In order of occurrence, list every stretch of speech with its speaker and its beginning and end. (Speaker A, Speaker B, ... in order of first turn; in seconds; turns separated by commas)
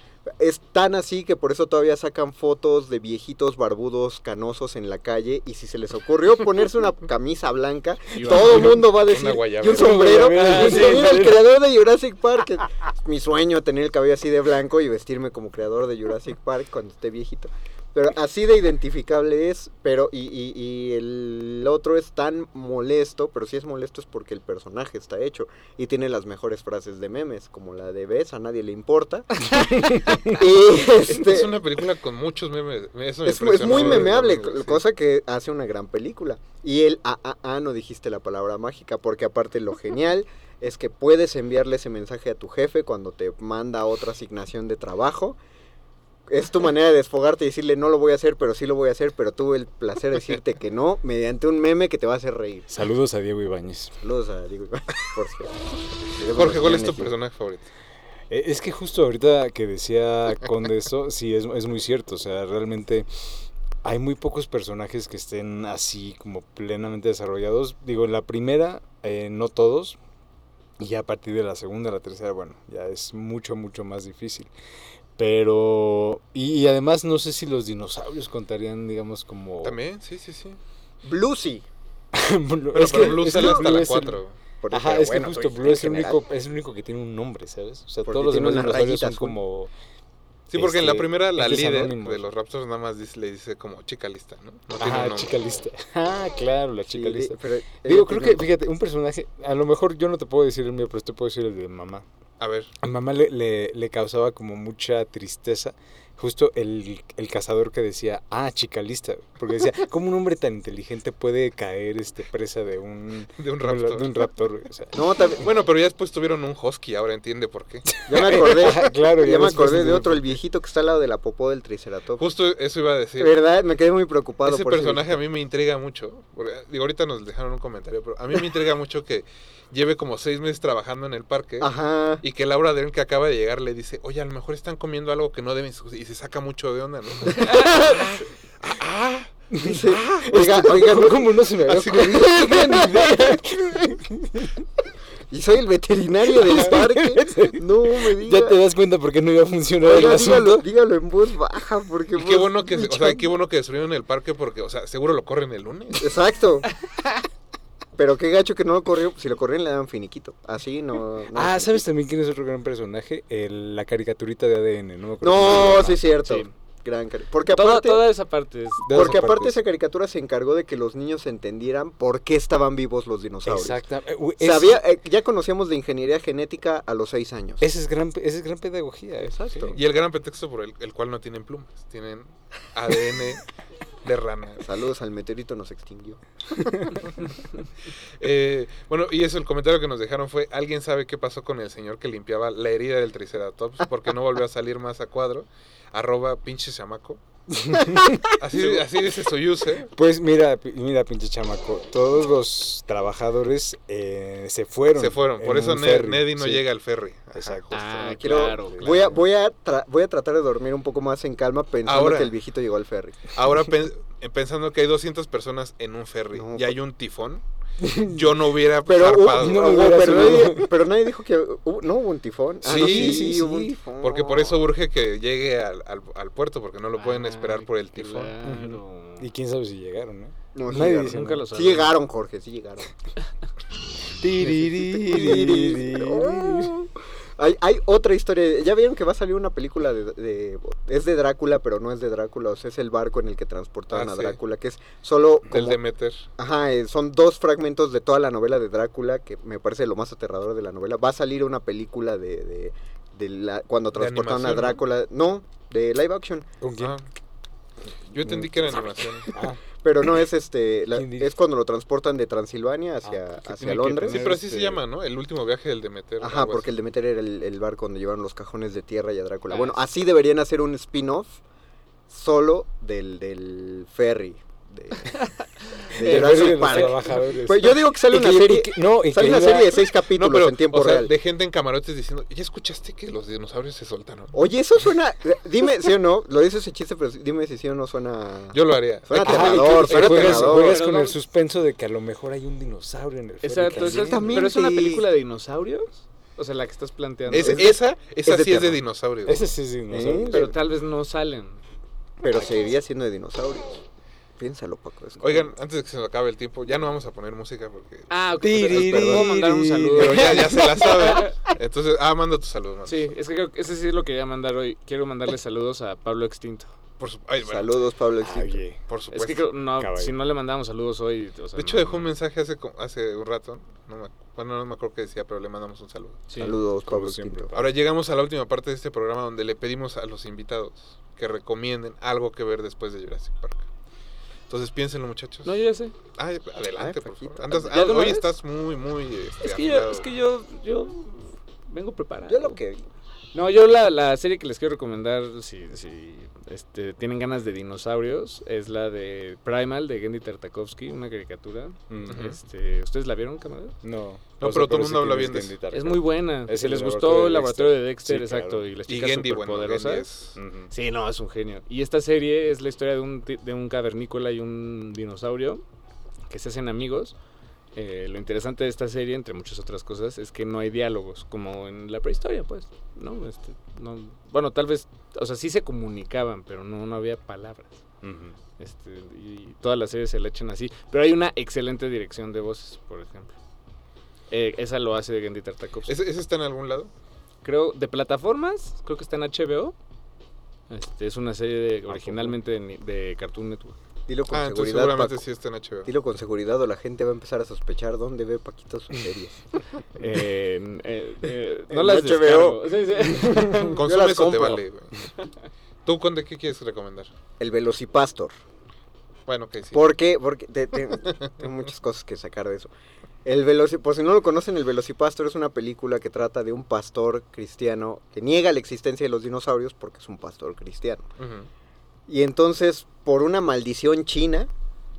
Speaker A: 0.4-31.6, Speaker B: 8.1-8.7, Speaker C: 8.2-10.3, Speaker D: 9.6-11.5, Speaker B: 10.3-11.2, Speaker D: 29.7-30.3, Speaker C: 31.0-34.8, Speaker A: 33.2-45.4, Speaker D: 33.7-34.1, Speaker A: 46.3-52.7, Speaker D: 52.7-53.9, Speaker A: 54.0-55.6, Speaker A: 56.1-57.1, Speaker C: 56.2-57.6, Speaker D: 58.3-63.1, Speaker D: 63.8-70.0, Speaker D: 70.8-74.5, Speaker D: 75.2-79.8, Speaker C: 79.6-80.6, Speaker A: 81.0-81.7, Speaker D: 82.1-89.7, Speaker C: 82.7-84.3, Speaker A: 82.8-83.9, Speaker A: 84.6-86.2, Speaker A: 88.0-89.4, Speaker C: 90.5-95.3, Speaker D: 90.5-92.3, Speaker D: 94.8-102.0, Speaker A: 96.9-98.4, Speaker C: 102.4-102.7, Speaker D: 102.8-115.0, Speaker C: 113.4-114.1, Speaker A: 114.9-115.4, Speaker C: 115.4-117.9, Speaker D: 118.0-120.4, Speaker A: 118.1-122.3, Speaker C: 122.2-123.3, Speaker A: 123.2-125.1, Speaker C: 124.4-139.3, Speaker A: 131.6-132.2, Speaker A: 137.3-138.0, Speaker D: 139.5-144.5, Speaker A: 139.6-144.0, Speaker C: 139.9-140.8, Speaker A: 145.3-148.6, Speaker D: 146.3-150.7, Speaker A: 149.8-153.2, Speaker C: 152.1-156.2, Speaker A: 156.0-156.7, Speaker A: 157.9-161.8, Speaker D: 161.3-166.0, Speaker A: 165.2-168.0, Speaker B: 166.0-166.5, Speaker B: 167.4-169.2, Speaker D: 168.8-169.6, Speaker A: 168.9-173.8, Speaker D: 173.4-174.8, Speaker A: 174.4-177.7, Speaker D: 177.6-179.8, Speaker A: 179.3-179.8, Speaker C: 179.7-183.4, Speaker C: 184.0-184.7, Speaker A: 184.6-186.2, Speaker C: 188.2-197.2, Speaker D: 197.6-198.7, Speaker C: 198.3-199.9, Speaker D: 199.9-206.6, Speaker C: 204.9-207.8, Speaker D: 207.3-209.2, Speaker B: 207.7-209.2, Speaker A: 208.1-213.3, Speaker C: 211.8-212.3, Speaker C: 213.3-220.3, Speaker A: 216.3-216.7, Speaker A: 218.9-224.6, Speaker D: 219.3-220.8, Speaker C: 222.6-223.4, Speaker D: 222.6-223.8, Speaker C: 224.0-228.3, Speaker B: 227.0-229.3, Speaker D: 228.4-231.5, Speaker A: 230.5-232.9, Speaker B: 230.8-231.9, Speaker D: 234.2-236.8, Speaker A: 234.9-245.8, Speaker C: 243.9-244.4, Speaker C: 245.5-246.3, Speaker A: 246.4-256.5, Speaker C: 253.9-254.8, Speaker D: 256.6-256.9, Speaker C: 256.8-257.1, Speaker C: 258.1-259.3, Speaker D: 259.3-259.6, Speaker A: 259.8-264.3, Speaker D: 260.9-261.4, Speaker D: 263.0-264.4, Speaker C: 263.5-266.7, Speaker B: 264.1-264.8, Speaker A: 266.2-271.4, Speaker B: 269.5-269.8, Speaker A: 272.1-275.2, Speaker B: 275.1-277.2, Speaker A: 275.9-281.1, Speaker D: 275.9-279.8, Speaker C: 280.1-284.4, Speaker A: 284.3-290.8, Speaker C: 288.5-290.7, Speaker D: 289.1-294.4, Speaker B: 289.9-291.2, Speaker B: 293.4-297.7, Speaker A: 293.7-295.1, Speaker C: 297.3-299.4, Speaker A: 297.3-298.8, Speaker D: 299.2-300.5, Speaker A: 299.9-300.6, Speaker B: 300.3-301.6, Speaker A: 302.2-303.8, Speaker A: 304.4-305.5, Speaker C: 305.2-308.6, Speaker B: 308.1-311.3, Speaker D: 308.4-310.9, Speaker A: 308.7-309.3, Speaker C: 309.9-313.1, Speaker B: 312.9-316.7, Speaker C: 317.0-317.7, Speaker A: 317.4-318.6, Speaker D: 318.2-318.8, Speaker C: 318.9-319.5, Speaker B: 319.1-322.0, Speaker D: 319.8-320.1, Speaker C: 321.6-326.2, Speaker B: 326.3-326.6, Speaker A: 326.4-327.5, Speaker D: 326.8-327.8, Speaker C: 327.5-333.7, Speaker C: 334.5-335.5, Speaker B: 335.4-335.9, Speaker C: 336.1-340.1, Speaker A: 336.8-337.9, Speaker B: 337.7-338.3, Speaker B: 339.4-342.6, Speaker A: 342.3-342.8, Speaker B: 343.3-353.8, Speaker D: 351.9-352.3, Speaker C: 352.1-352.4, Speaker D: 353.8-358.6, Speaker C: 354.4-355.6, Speaker B: 355.7-360.1, Speaker C: 358.9-360.4, Speaker D: 360.4-360.7, Speaker B: 360.7-365.6, Speaker B: 366.3-367.1, Speaker B: 367.7-377.8, Speaker D: 378.0-378.3, Speaker B: 378.6-383.3, Speaker B: 384.3-385.9, Speaker C: 385.9-386.9, Speaker B: 387.4-389.8, Speaker B: 390.7-393.8, Speaker D: 391.9-392.4, Speaker A: 394.1-395.2, Speaker C: 394.3-395.9, Speaker A: 395.9-399.6, Speaker B: 399.9-403.8, Speaker A: 401.7-404.6, Speaker C: 403.5-405.1, Speaker C: 405.8-407.1, Speaker A: 407.4-408.3, Speaker C: 409.3-409.9, Speaker A: 409.7-412.7, Speaker A: 413.2-421.1, Speaker C: 421.2-421.5, Speaker A: 422.1-424.5